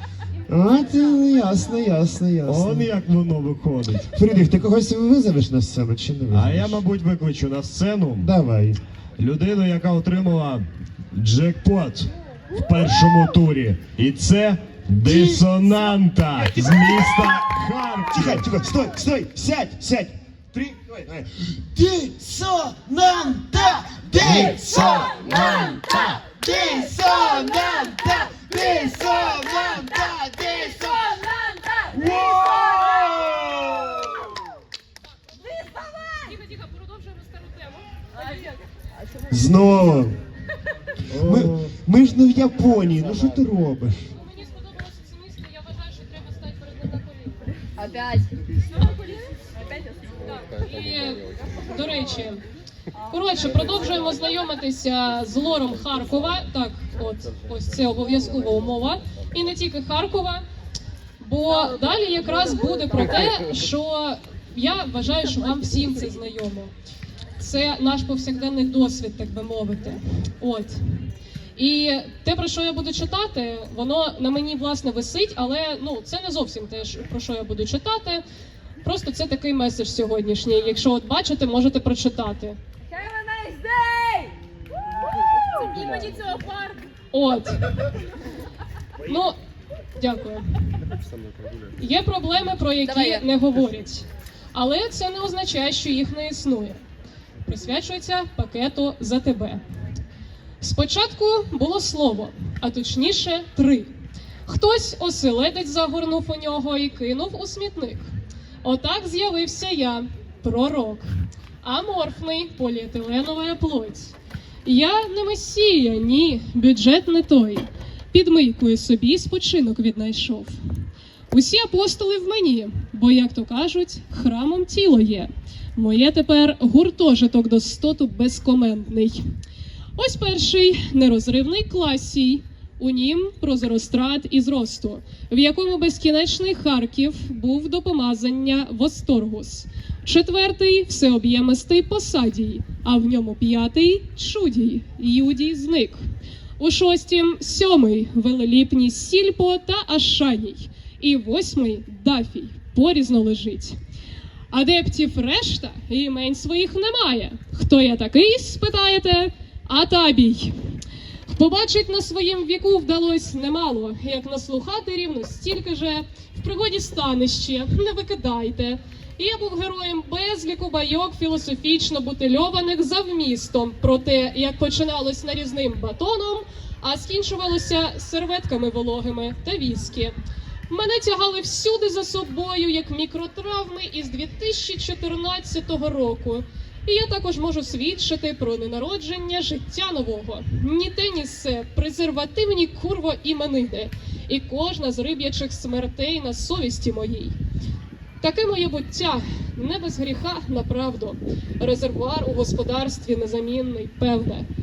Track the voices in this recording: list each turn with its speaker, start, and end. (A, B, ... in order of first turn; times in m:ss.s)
0:00.5-0:02.9 A
0:02.4-0:04.1 B
0:04.1-0:06.8 A
0:06.3-0:08.3 B
0:08.2-0:08.8 A
0:09.2-0:18.4 B
0:15.0-0:15.6 A
0:16.4-0:17.4 A
0:18.1-0:34.3 A
0:31.5-0:31.7 C
0:35.8-0:38.5 D
0:39.3-0:40.1 A
0:41.1-0:41.7 B
0:41.2-0:44.1 A
0:44.1-0:47.6 D
0:47.8-0:48.3 C
0:50.3-0:52.4 D
0:53.1-1:00.4 D
1:01.2-1:06.7 D
1:07.4-1:10.8 D
1:11.6-1:18.2 D
1:18.8-1:22.6 D
1:22.9-1:24.4 C
1:25.6-1:27.6 D
1:26.1-1:26.4 C
1:29.0-1:29.4 D
1:30.0-1:30.4 D
1:31.8-1:36.8 D
1:37.4-1:39.6 D
1:40.6-1:43.9 D
1:44.5-1:48.1 D
1:48.6-1:51.1 D
1:51.6-2:00.6 D
2:01.3-2:09.2 D
2:10.0-2:26.0 D
2:26.6-2:33.8 D
2:34.5-2:40.6 D
2:41.3-3:00.1 D
3:00.7-3:17.4 D
3:18.2-3:24.5 D